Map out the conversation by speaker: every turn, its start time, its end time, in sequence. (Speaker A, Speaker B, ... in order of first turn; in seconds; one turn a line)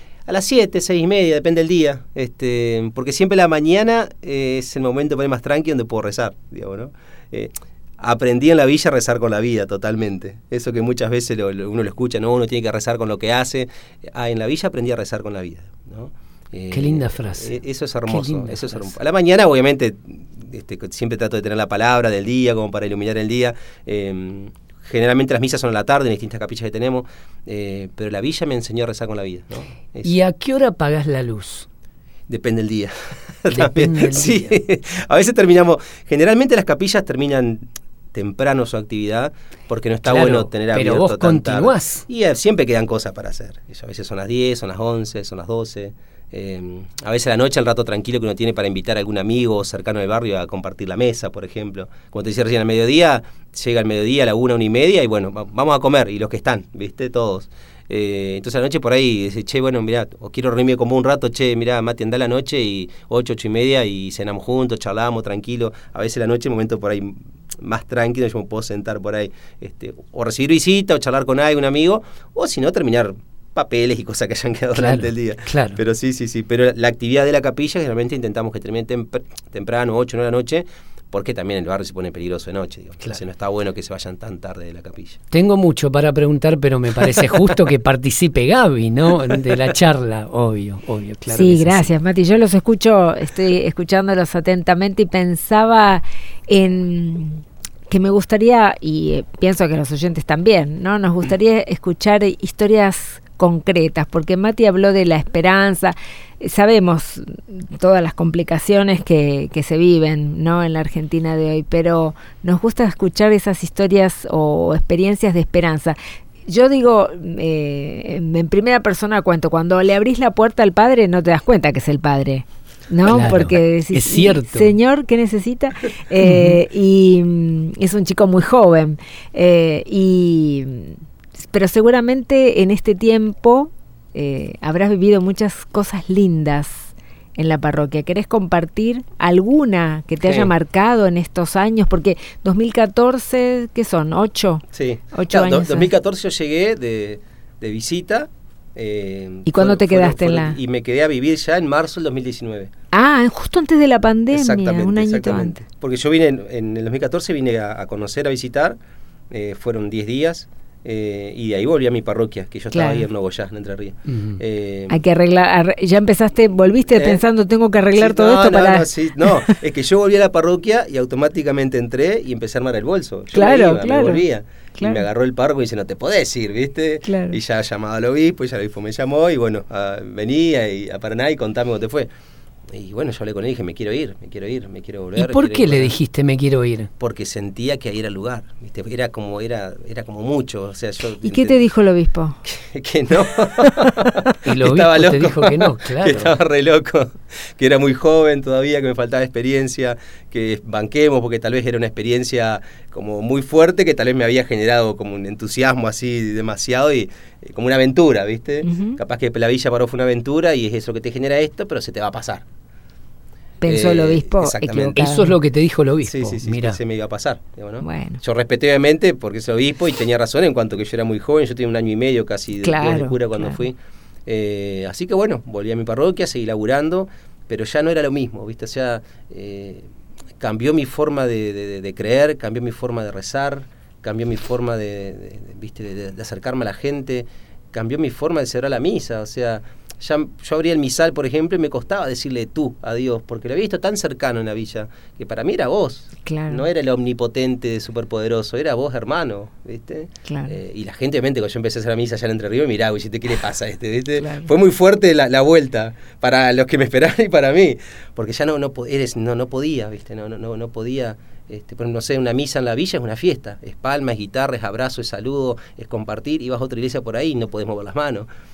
Speaker A: 0.3-30.1
Speaker B: 16.7-18.9
Speaker B: 30.0-31.7
Speaker A: 32.3-85.2
Speaker B: 33.5-34.5
Speaker B: 40.1-42.1
Speaker B: 74.7-75.8
Speaker B: 85.3-91.8
Speaker A: 89.3-89.6
Speaker C: 91.3-116.0
Speaker C: 116.5-145.9
Speaker B: 123.1-124.8
Speaker B: 126.2-126.6
Speaker A: 140.2-140.5
Speaker A: 144.7-152.7
Speaker C: 149.5-150.6
Speaker C: 152.9-155.6
Speaker A: 154.3-158.8
Speaker A: 159.3-165.0
Speaker C: 162.7-163.1
Speaker B: 164.1-164.4
Speaker C: 164.9-169.6
Speaker A: 166.9-167.2
Speaker A: 168.0-182.1
Speaker C: 173.3-174.2
Speaker C: 177.1-177.4
Speaker A: 182.7-186.0
Speaker B: 185.2-186.9
Speaker A: 187.0-191.6
Speaker C: 191.2-192.4
Speaker A: 192.4-212.4
Speaker B: 194.4-196.3
Speaker C: 208.7-209.0
Speaker C: 213.6-215.4
Speaker A: 213.7-215.0
Speaker B: 215.0-216.8
Speaker A: 216.0-229.9
Speaker C: 217.8-218.2
Speaker C: 222.6-223.6
Speaker A: 230.4-268.3
Speaker C: 246.2-246.7
Speaker C: 250.3-250.6
Speaker C: 254.2-254.5